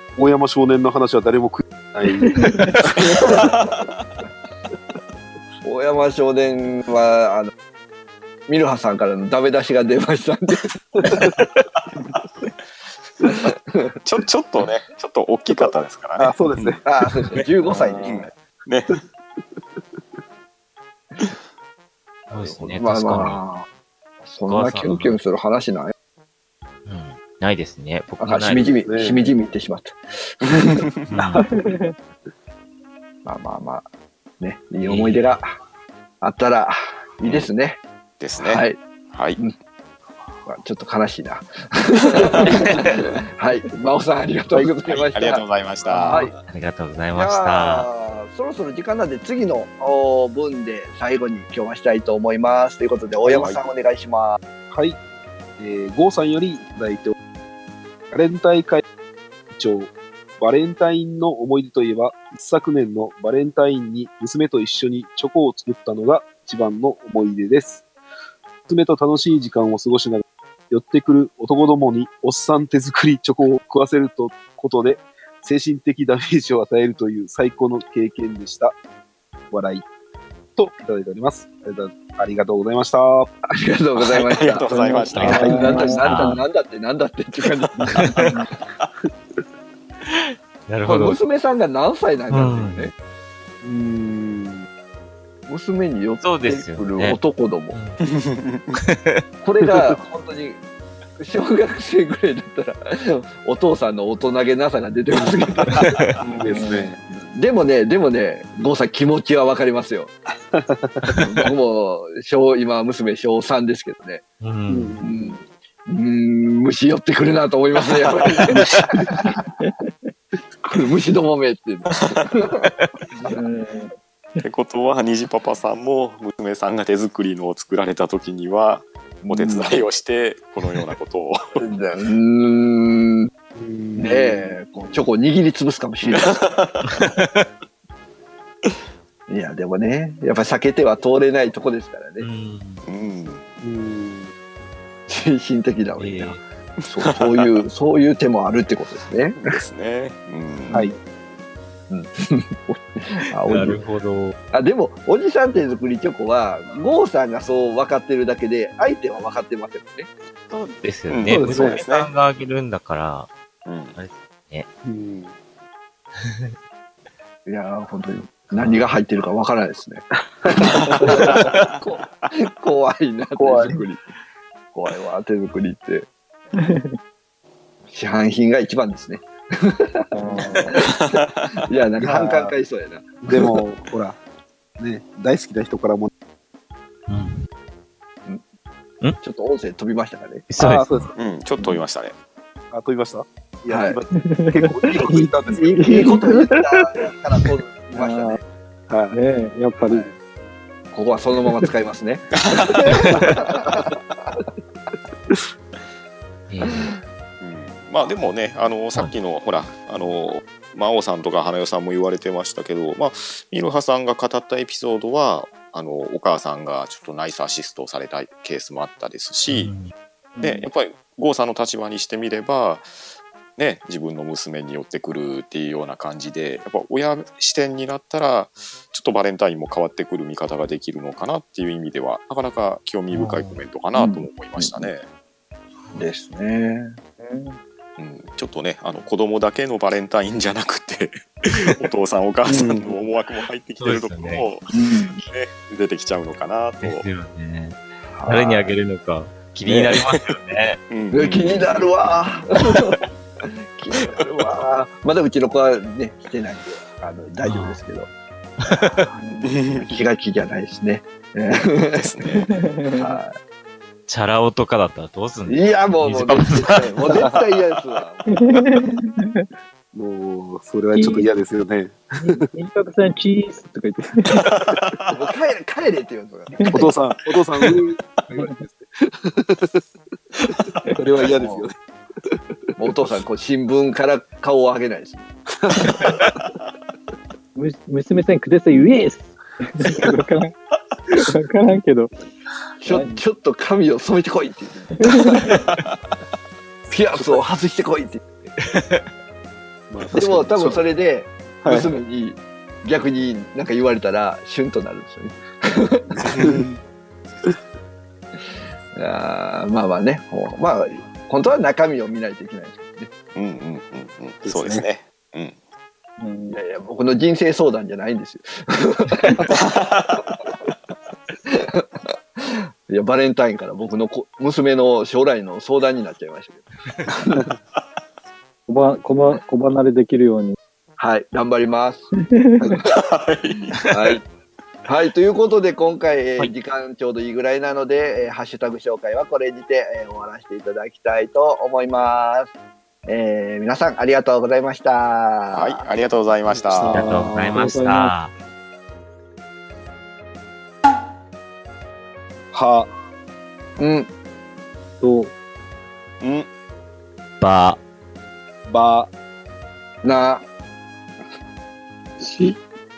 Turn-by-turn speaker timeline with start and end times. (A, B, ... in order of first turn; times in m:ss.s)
0:00.2-0:02.9 A
0:02.2-0:02.8 B
0:03.0-0:03.8 C
0:03.1-0:04.1 D
0:05.6-0:07.5 C
0:08.5-0:11.4 C
0:11.0-0:11.3 A
0:13.2-0:13.8 C
0:14.0-0:16.8 D
0:15.6-0:16.8 A
0:16.8-0:18.3 C
0:17.7-0:18.1 B
0:18.0-0:19.0 D
0:22.3-0:23.4 E
0:22.4-0:23.7 C
0:24.2-0:25.9 C
0:24.5-0:25.2 E
0:26.9-0:28.8 E
0:28.2-0:30.9 C
0:28.9-0:29.3 A
0:31.1-0:31.5 E
0:31.3-0:31.8 A
0:31.5-0:32.0 B
0:33.2-0:33.8 C
0:34.4-0:35.5 C
0:34.8-0:35.4 E
0:36.2-0:37.8 C
0:37.2-0:37.5 D
0:38.2-0:39.4 D
0:38.4-0:38.8 C
0:40.5-0:45.4 C
0:42.2-0:42.6 D
0:42.5-0:42.9 E
0:44.8-0:46.4 D
0:45.9-0:47.9 E
0:46.0-0:46.3 C
0:47.2-0:54.4 C
0:53.2-0:53.6 A
0:54.7-0:55.0 A
0:55.6-0:57.1 A
0:58.1-0:58.8 A
0:59.5-1:07.8 A
1:08.7-1:18.8 A
1:19.5-1:19.8 A
1:20.6-1:23.3 A
1:23.6-1:24.8 C
1:24.0-1:25.7 D
1:24.7-1:26.4 B
1:25.2-1:26.4 E
1:25.3-1:25.9 A
1:25.4-1:28.2 C
1:28.0-1:28.5 B
1:30.0-1:31.2 E
1:30.9-1:32.9 C
1:32.3-1:32.9 E
1:33.6-1:34.7 A
1:35.5-1:37.8 C
1:36.2-1:37.2 E
1:37.7-1:38.0 E
1:38.0-1:38.8 D
1:38.8-1:39.2 E
1:39.4-1:40.6 C
1:41.2-1:46.1 C
1:45.2-1:45.6 A
1:45.8-1:46.1 E
1:46.2-1:47.0 A
1:46.5-1:47.0 B
1:47.1-1:50.1 C
1:50.5-1:51.3 A
1:51.2-1:54.2 C
1:54.4-1:55.0 E
1:54.7-1:55.4 A
1:55.0-1:59.4 C
1:58.3-1:58.6 D
1:58.6-1:59.2 A
1:59.6-1:59.9 B
2:00.6-2:03.4 C
2:02.6-2:02.9 E
2:03.2-2:04.4 B
2:04.4-2:11.6 D
2:09.2-2:09.8 C
2:11.6-2:13.3 C
2:13.6-2:14.6 A
2:14.0-2:16.5 C
2:16.1-2:17.1 D
2:16.9-2:17.4 E
2:19.3-2:22.3 C
2:22.2-2:22.8 E
2:22.9-2:23.4 D
2:23.6-2:24.3 A
2:25.1-2:29.4 C
2:26.0-2:26.4 E
2:27.0-2:27.6 D
2:29.4-2:30.8 D
2:30.7-2:31.0 A
2:31.9-2:33.8 C
2:33.4-2:34.3 E
2:34.5-2:40.1 C
2:40.5-2:43.3 E
2:41.1-2:42.1 D
2:41.3-2:41.8 A
2:43.7-2:44.0 D
2:44.0-2:44.7 E
2:44.8-2:45.3 A
2:47.5-2:50.1 C
2:50.4-2:51.3 A
2:50.7-2:54.0 C
2:53.4-2:53.7 A
2:54.7-2:56.1 C
2:56.5-2:57.0 B
2:57.9-3:03.1 C
3:00.1-3:00.8 B
3:00.8-3:01.3 D
3:02.0-3:02.5 A
3:03.2-3:04.2 A
3:04.8-3:06.1 A
3:07.1-3:07.4 E
3:09.2-3:10.5 C
3:10.5-3:11.1 E
3:10.6-3:11.1 A
3:11.2-3:12.2 D
3:12.7-3:16.2 A
3:13.7-3:14.0 C
3:14.1-3:17.0 B
3:15.5-3:18.4 C
3:17.9-3:18.4 B
3:18.9-3:19.2 A
3:19.1-3:20.1 B
3:19.8-3:20.1 C
3:20.9-3:24.4 C
3:22.5-3:23.0 D
3:23.0-3:23.3 E
3:26.5-3:26.9 E
3:26.7-3:27.0 C
3:27.4-3:39.7 D
3:39.5-3:39.9 E
3:40.4-3:40.7 B
3:40.4-3:42.9 D
3:43.6-3:55.1 D
3:53.1-3:53.6 E
3:54.0-3:54.9 C
3:56.0-3:57.0 C
3:57.2-3:57.6 B
3:58.0-4:07.0 D
4:02.5-4:03.0 A
4:03.8-4:04.5 E
4:04.7-4:05.2 C
4:06.8-4:10.8 E
4:08.1-4:08.8 C
4:09.6-4:10.3 D
4:10.9-4:12.7 D
4:11.1-4:18.1 C
4:17.4-4:17.8 E
4:18.6-4:19.1 E
4:19.1-4:19.4 B
4:19.3-4:22.1 C
4:19.5-4:20.0 D
4:22.0-4:22.5 D
4:22.3-4:23.2 B
4:23.0-4:23.4 C
4:24.1-4:27.0 E
4:25.5-4:28.3 C
4:28.3-4:29.5 B
4:29.9-4:32.4 A
4:30.9-4:31.3 B
4:32.2-4:34.5 B
4:34.5-4:35.1 D
4:35.1-4:36.8 C
4:36.5-4:36.9 B
4:36.7-4:39.8 A
4:38.3-4:38.6 B
4:40.4-4:42.9 A
4:41.4-4:41.7 C
4:42.8-4:45.3 C
4:45.6-4:46.1 A
4:47.6-4:50.5 B
4:51.1-4:52.1 B
4:52.8-4:55.6 C
4:52.9-4:53.2 B
4:55.0-4:55.5 B
4:56.9-4:58.2 C
4:57.1-4:57.4 A
4:58.7-4:59.0 E
4:59.9-5:00.9 A
5:00.2-5:06.1 C
5:01.6-5:01.9 A
5:06.1-5:06.8 A
5:06.2-5:06.7 D
5:09.0-5:13.1 C
5:13.4-5:15.6 D
5:14.4-5:14.9 A
5:16.2-5:16.6 B
5:16.5-5:20.4 C
5:19.5-5:20.3 D
5:21.4-5:27.5 C
5:28.7-5:30.6 B
5:31.0-5:32.1 C
5:32.2-5:32.7 B
5:32.6-5:32.9 C
5:32.8-5:33.8 D
5:33.8-5:34.2 C
5:34.9-5:42.5 C
5:43.1-5:45.8 C
5:45.5-5:47.1 D
5:46.5-5:47.6 A
5:46.9-5:48.3 E
5:47.3-5:48.1 B
5:52.5-5:52.9 A
5:53.8-5:54.1 C
5:55.0-5:55.3 B
5:56.2-5:56.5 D
5:57.4-5:57.8 E
5:58.7-5:59.1 A
6:00.0-6:00.4 C
6:02.2-6:02.6 B